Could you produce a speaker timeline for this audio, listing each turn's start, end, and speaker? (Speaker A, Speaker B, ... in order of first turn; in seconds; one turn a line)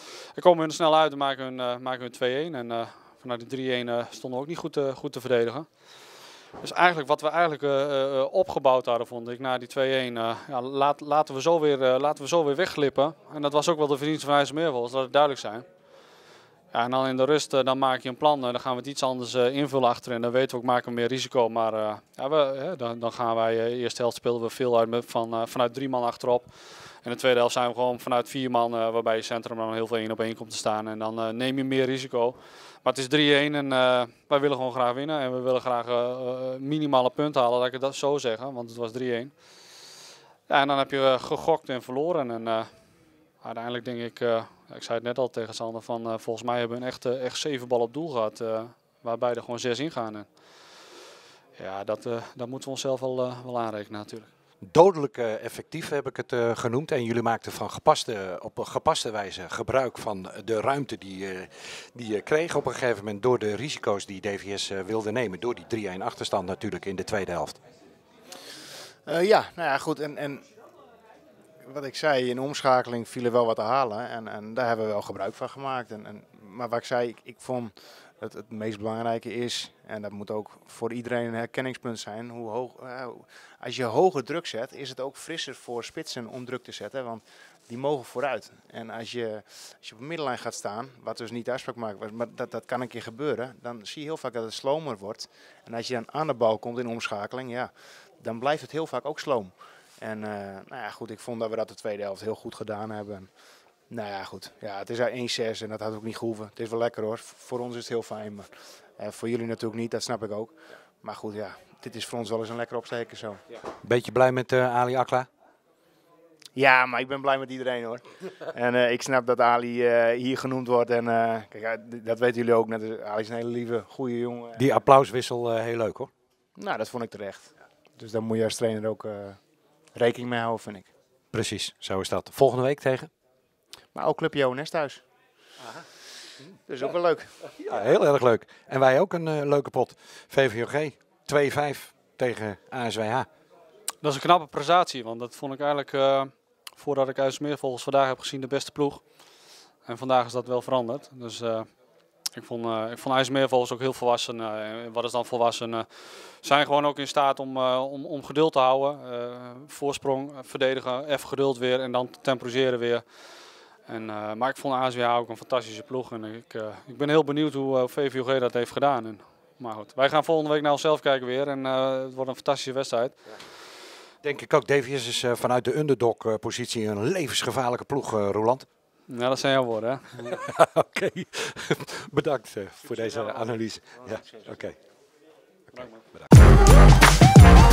Speaker A: 0.3-5.7
Speaker A: 6.6-15.6
Speaker A: 16.7-26.5
Speaker A: 27.0-39.3
Speaker A: 40.5-42.7
Speaker A: 43.4-50.3
Speaker A: 51.6-54.3
Speaker B: 54.6-67.6
Speaker C: 69.1-70.4
Speaker C: 71.6-103.3
Speaker C: 103.9-113.4
Speaker B: 113.8-115.3
Speaker C: 116.5-124.7
Speaker B: 124.5-126.1
Speaker C: 126.6-129.4
Speaker C: 129.9-130.9
Speaker B: 131.3-133.1
Speaker C: 133.9-135.0
Speaker C: 136.7-137.3
Speaker B: 137.6-143.3
Speaker A: 144.0-149.0
Speaker A: 149.8-151.7
Speaker A: 152.3-155.9
Speaker A: 156.4-163.0
Speaker A: 163.9-173.2
Speaker B: 174.2-178.7
Speaker A: 179.1-180.4
Speaker B: 180.3-184.8